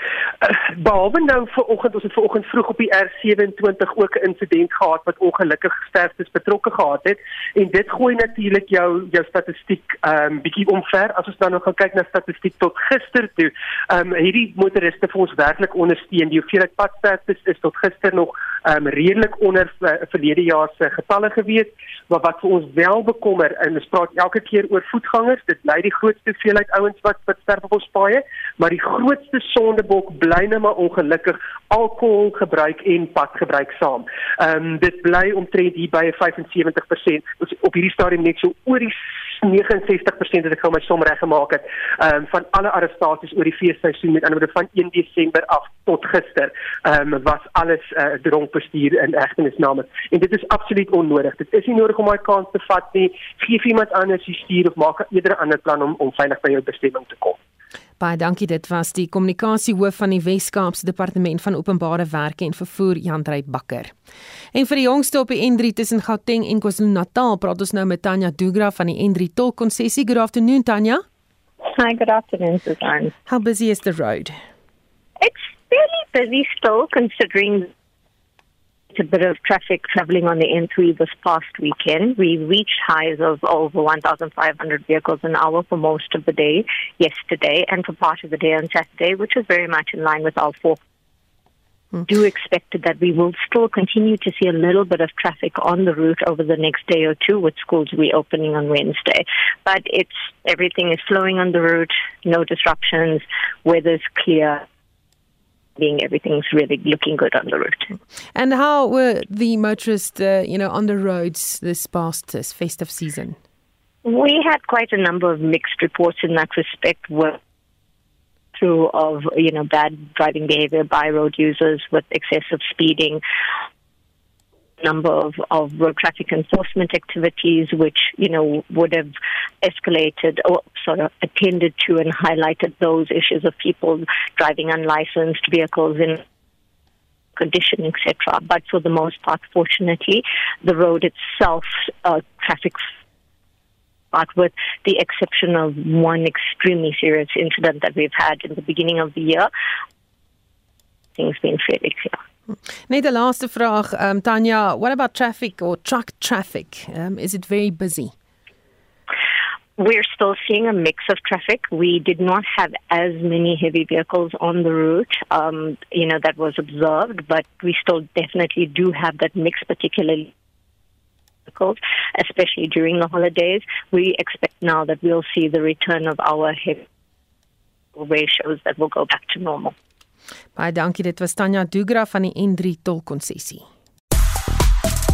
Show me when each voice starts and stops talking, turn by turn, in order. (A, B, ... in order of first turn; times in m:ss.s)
0:00.4-0:57.4 A
0:58.0-1:03.9 B
1:04.5-1:11.0 B
1:11.7-1:13.1 C
1:13.3-1:14.4 B
1:15.2-1:17.7 C
1:18.9-1:30.8 C
1:32.1-1:44.6 C
1:45.8-1:47.9 C
1:48.3-1:53.4 B
1:54.0-1:57.4 C
1:58.6-2:03.2 C
2:04.8-2:16.2 C
2:17.4-2:22.8 C
2:24.1-2:29.5 C
2:31.2-2:32.2 C
2:32.9-2:38.1 B
2:39.8-2:50.3 C
2:51.5-2:56.8 C
2:58.0-2:59.7 C
3:00.6-3:03.6 B